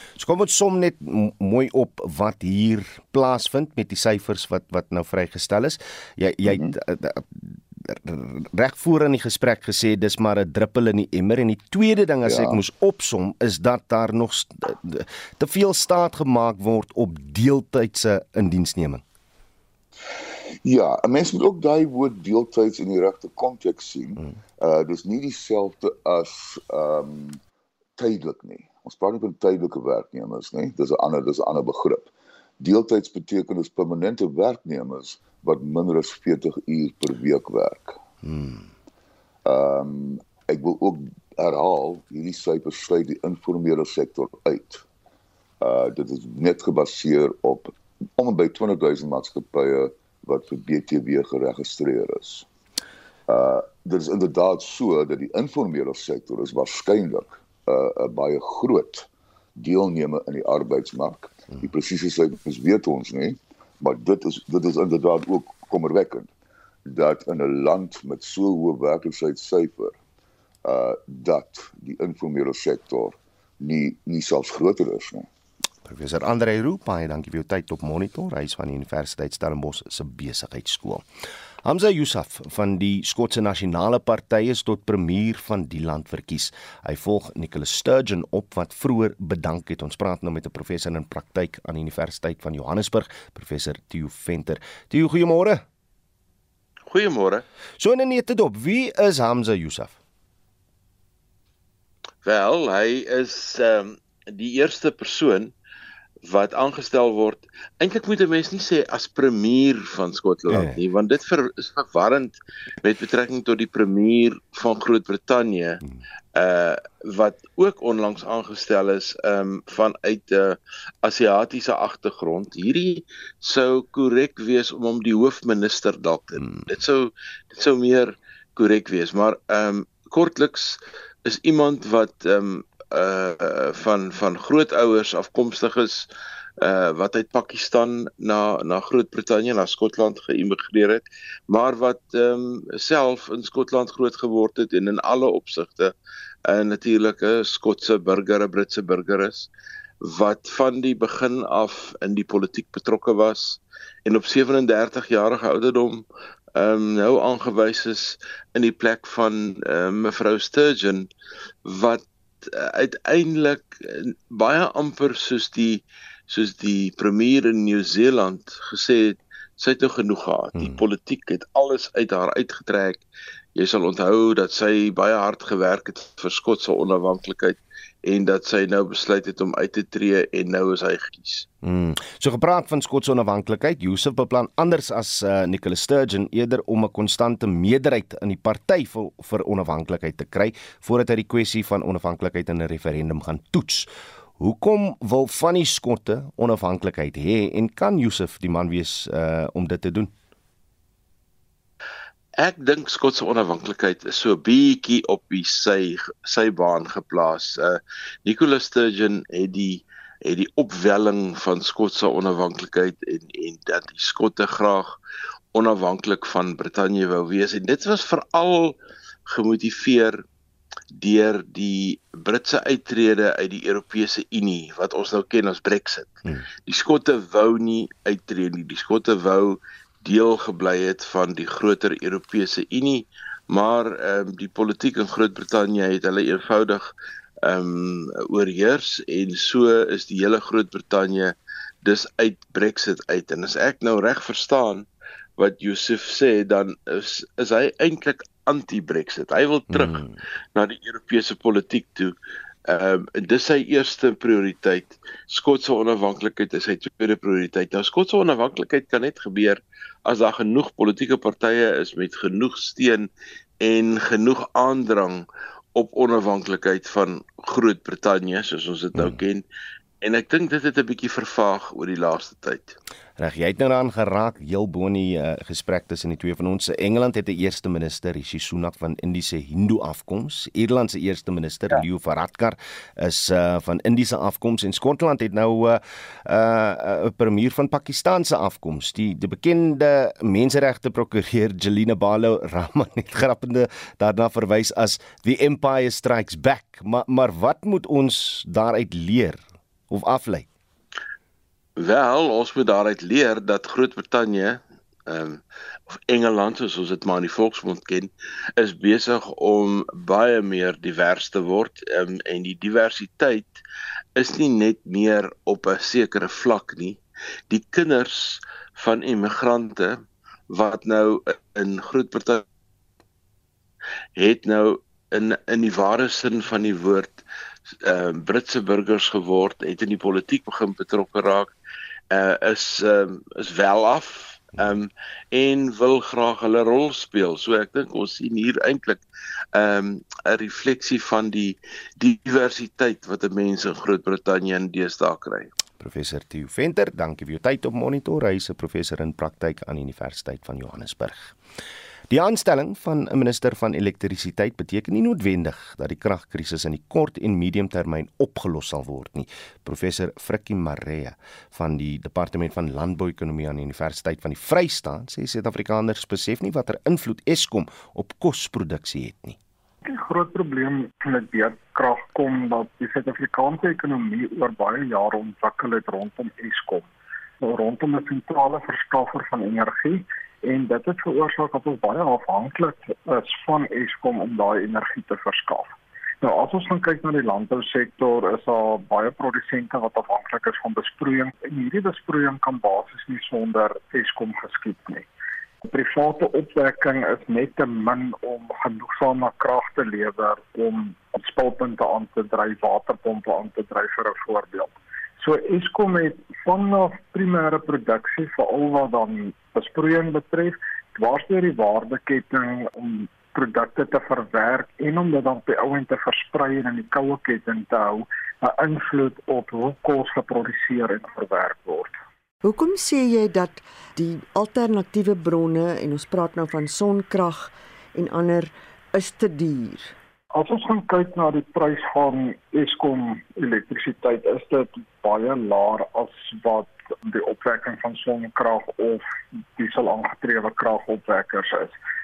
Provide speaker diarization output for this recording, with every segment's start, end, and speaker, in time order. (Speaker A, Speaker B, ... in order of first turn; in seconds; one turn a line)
Speaker A: 0.2-19.0
Speaker B: 6.5-6.7
Speaker B: 12.2-12.6
Speaker B: 20.6-27.4
Speaker B: 28.0-38.0
Speaker A: 38.2-38.6
Speaker B: 39.4-44.8
Speaker B: 45.6-52.5
Speaker B: 53.3-66.3
Speaker B: 66.8-70.0
Speaker B: 70.6-75.3
Speaker A: 75.8-81.0
Speaker A: 81.6-95.6
Speaker C: 96.9-97.4
Speaker A: 97.8-99.9
Speaker C: 102.2-105.5
Speaker C: 106.2-115.8
Speaker A: 110.5-110.8
Speaker C: 116.3-136.1
Speaker C: 136.6-145.9
Speaker C: 146.5-149.5
Speaker C: 150.0-156.0
Speaker C: 156.6-161.1
Speaker C: 161.7-173.0
Speaker C: 173.6-181.5
Speaker A: 181.6-200.1
Speaker C: 202.4-215.0
Speaker C: 215.5-220.2
Speaker C: 220.9-236.9
Speaker C: 237.4-244.9
Speaker C: 245.4-250.0
Speaker A: 249.7-250.2
Speaker C: 250.6-252.1
Speaker C: 252.7-263.1
Speaker C: 263.6-269.4
Speaker C: 270.0-272.8
Speaker A: 273.2-300.5
Speaker C: 301.8-305.4
Speaker C: 306.1-313.6
Speaker C: 314.1-322.4
Speaker C: 324.1-331.5
Speaker C: 332.1-339.0
Speaker C: 339.5-345.5
Speaker A: 345.8-351.4
Speaker A: 352.1-369.4
Speaker D: 369.9-376.9
Speaker D: 377.4-395.1
Speaker D: 395.6-421.9
Speaker E: 422.4-429.9
Speaker D: 430.3-439.0
Speaker D: 439.6-441.7